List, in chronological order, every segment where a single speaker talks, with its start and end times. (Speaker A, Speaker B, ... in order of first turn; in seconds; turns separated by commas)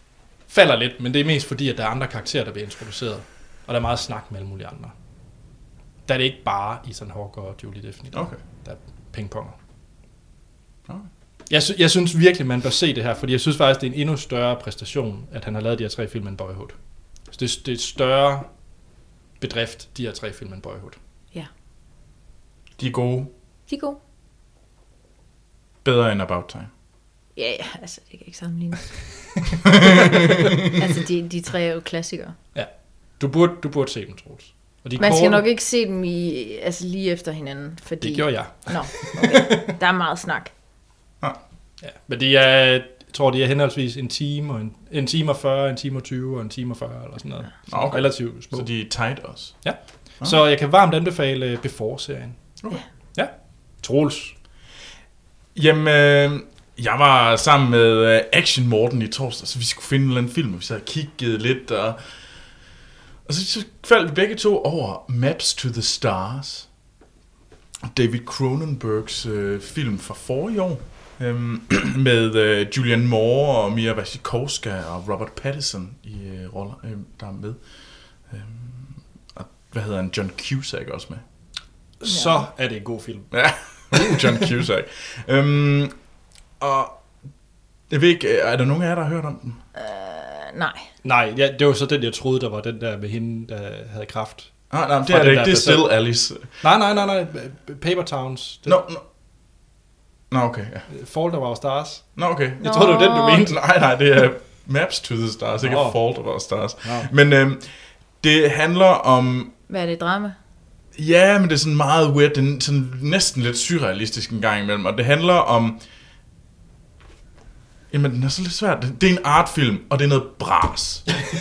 Speaker A: 0.5-4.9, Speaker A: 6.1-9.6, Speaker B: 8.1-8.4, Speaker A: 11.5-16.8, Speaker A: 17.3-18.5, Speaker A: 19.4-21.0, Speaker B: 22.8-23.3, Speaker C: 23.7-24.0, Speaker B: 25.8-26.7, Speaker C: 27.4-29.1, Speaker B: 29.8-30.5, Speaker C: 30.6-32.4, Speaker A: 32.5-35.4, Speaker C: 35.0-40.5, Speaker A: 38.0-39.7, Speaker A: 41.8-48.7, Speaker B: 47.7-49.6, Speaker A: 49.6-52.4, Speaker A: 53.1-54.3, Speaker B: 55.5-62.0, Speaker B: 63.3-66.7, Speaker B: 67.8-77.6, Speaker B: 78.3-81.2, Speaker A: 82.0-83.3, Speaker C: 82.1-82.4, Speaker B: 83.3-86.0, Speaker A: 83.9-84.5, Speaker B: 86.6-87.0, Speaker B: 87.9-89.6, Speaker C: 89.8-90.9, Speaker A: 91.0-94.5, Speaker B: 94.7-96.5, Speaker A: 95.0-95.9, Speaker A: 96.6-98.8, Speaker B: 98.7-99.0, Speaker B: 100.3-100.9, Speaker A: 100.9-103.5, Speaker B: 102.2-107.7, Speaker C: 102.6-103.5, Speaker A: 105.6-106.0, Speaker A: 106.8-107.1, Speaker B: 108.2-109.5, Speaker C: 109.7-110.4, Speaker B: 111.0-115.8, Speaker B: 117.9-121.2